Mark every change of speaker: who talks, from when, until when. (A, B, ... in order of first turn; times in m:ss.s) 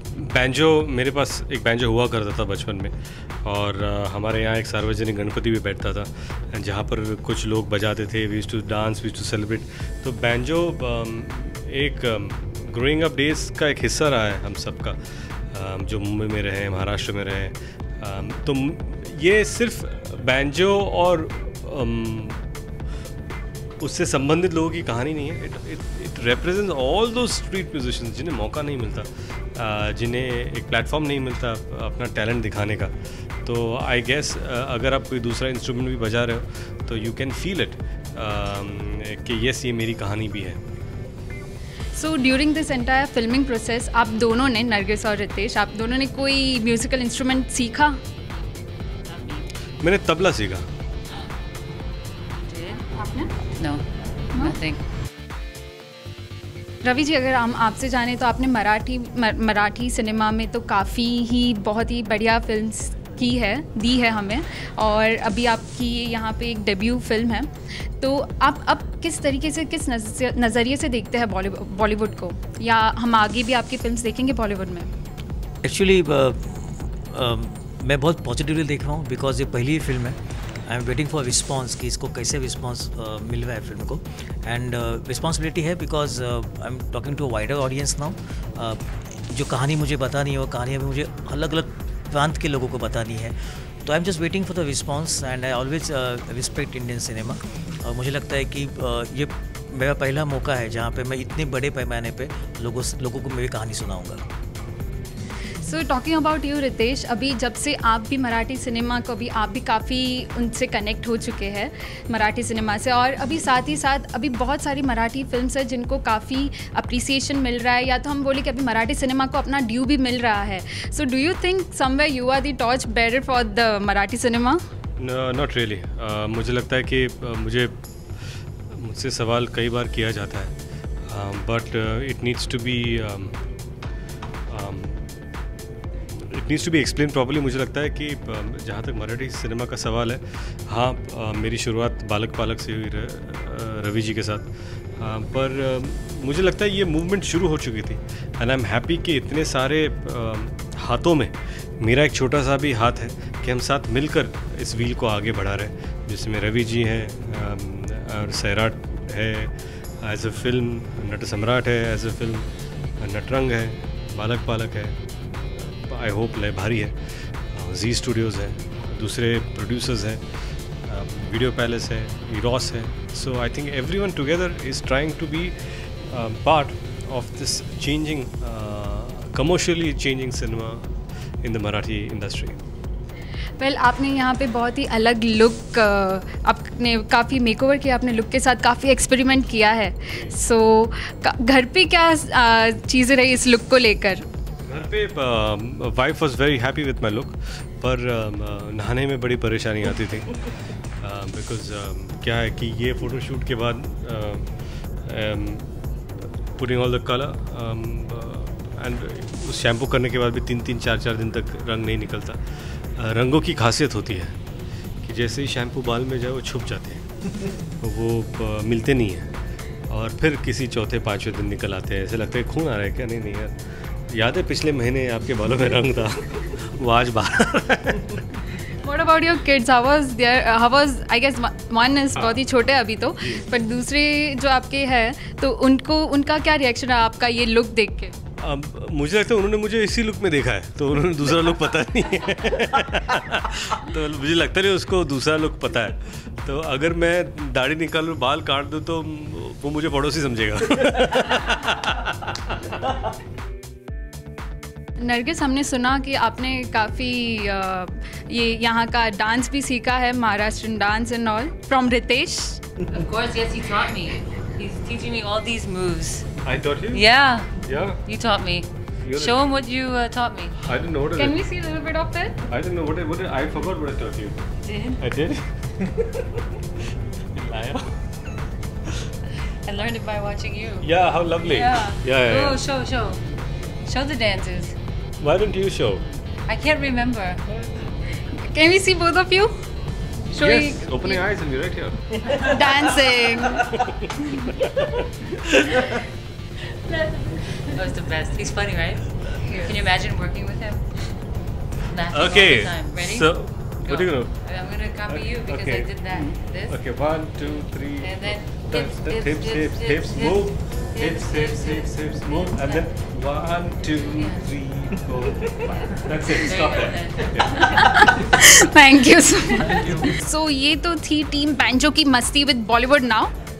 0:00.1-0:15.0 A
0:15.5-0:22.4 A
0:23.8-0:32.9 A
0:33.4-0:40.6 A
0:42.0-0:48.0 B
0:49.1-0:49.4 C
0:49.8-0:50.7 A
0:52.5-0:52.8 C
0:52.9-0:53.3 B
0:53.6-0:54.8 C
0:56.8-1:07.5 B
1:08.0-1:14.9 B
1:15.6-1:44.2 D
1:45.6-2:04.6 B
2:05.0-2:10.6 A
2:11.1-2:13.4 A
2:14.5-2:15.2 A
2:16.1-2:42.5 A
2:43.0-2:47.0 A
2:47.5-2:50.2 A
2:50.9-3:02.6 A
3:03.6-3:14.2 B
3:14.7-3:20.5 A
3:21.0-3:24.5 A
3:25.0-3:25.7 A
3:26.6-3:34.4 A
3:35.0-3:37.1 A
3:37.8-3:39.3 A
3:39.9-3:48.4 A
3:48.7-3:58.1 B
3:58.4-4:12.6 A
4:15.0-4:22.6 B
4:22.9-4:26.3 C
4:26.4-4:27.0 A
4:26.9-4:30.6 C
4:27.6-4:28.0 A
4:29.0-4:29.4 A
4:30.6-4:31.4 A
4:31.1-4:32.4 B
4:32.5-4:34.5 A
4:34.6-4:35.0 C
4:35.0-4:36.5 A
4:37.3-4:38.1 A
4:39.6-4:40.9 C
4:40.8-4:42.6 A
4:41.5-4:43.2 C
4:43.8-4:44.7 C
4:45.2-4:46.0 A
4:46.5-4:47.4 C
4:48.2-4:49.5 B
4:50.3-4:53.0 A
4:50.4-4:51.2 B
4:52.3-4:53.8 B
4:53.8-4:55.9 A
4:57.4-5:01.1 C
5:01.8-5:06.8 C
5:02.1-5:04.5 A
5:05.1-5:18.2 A
5:08.0-5:12.9 C
5:14.1-5:14.5 C
5:16.2-5:18.1 C
5:17.8-5:23.3 B